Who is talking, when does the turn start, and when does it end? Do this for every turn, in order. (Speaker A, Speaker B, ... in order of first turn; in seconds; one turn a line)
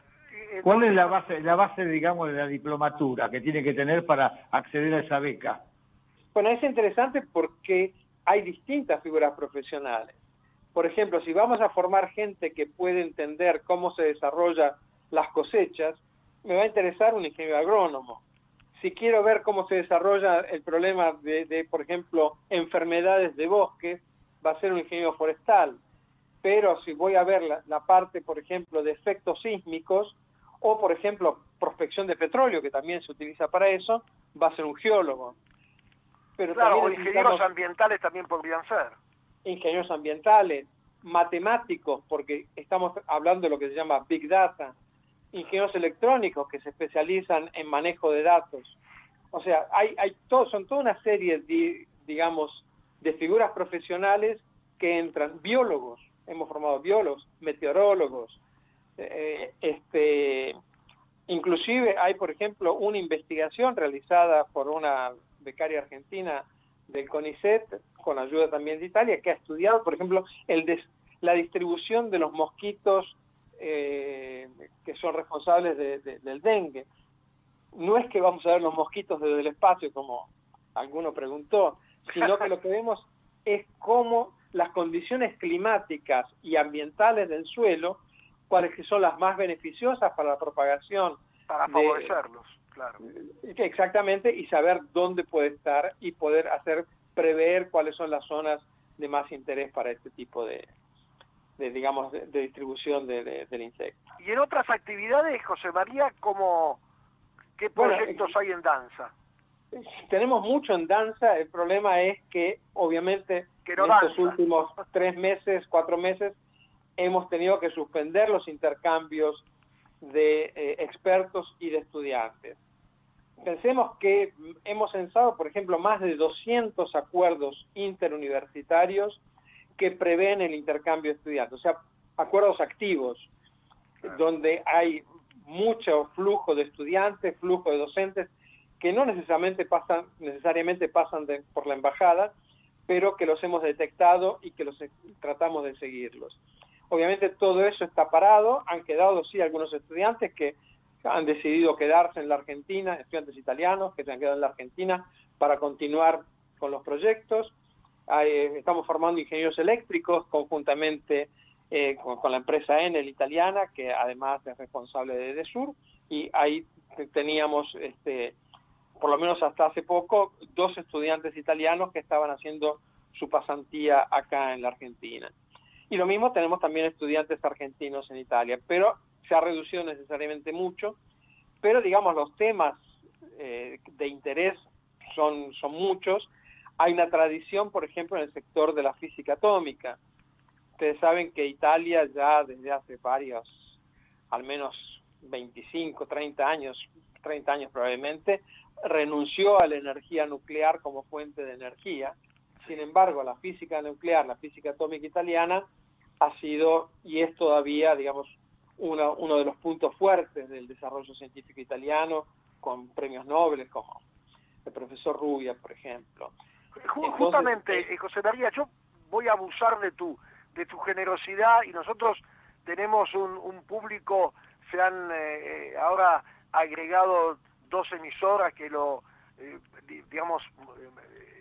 Speaker A: 0.3-1.2
Speaker B: 0.6-5.6
Speaker C: 6.3-10.2
Speaker C: 10.8-18.2
Speaker C: 18.8-25.8
Speaker C: 26.4-35.4
Speaker C: 36.4-37.5
Speaker A: 36.5-39.0
Speaker C: 39.5-44.8
Speaker C: 45.3-48.8
Speaker C: 49.3-58.4
Speaker C: 59.0-60.6
Speaker C: 61.3-76.9
Speaker C: 77.7-92.2
Speaker A: 91.5-93.0
Speaker C: 93.0-100.7
Speaker C: 101.6-104.1
Speaker A: 104.2-106.8
Speaker A: 107.6-109.1
Speaker C: 107.8-108.3
Speaker C: 109.7-116.4
Speaker A: 113.7-114.4
Speaker C: 117.0-119.5
Speaker C: 120.0-122.6
Speaker C: 123.4-129.2
Speaker C: 129.8-133.3
Speaker C: 134.0-142.3
Speaker C: 142.9-146.4
Speaker C: 146.9-157.5
Speaker C: 158.1-168.4
Speaker C: 169.0-175.3
Speaker C: 175.9-181.0
Speaker C: 181.6-190.0
Speaker C: 190.8-193.7
Speaker C: 194.3-205.7
Speaker C: 206.2-214.0
Speaker C: 214.7-216.3
Speaker A: 216.8-230.6
Speaker C: 217.0-217.9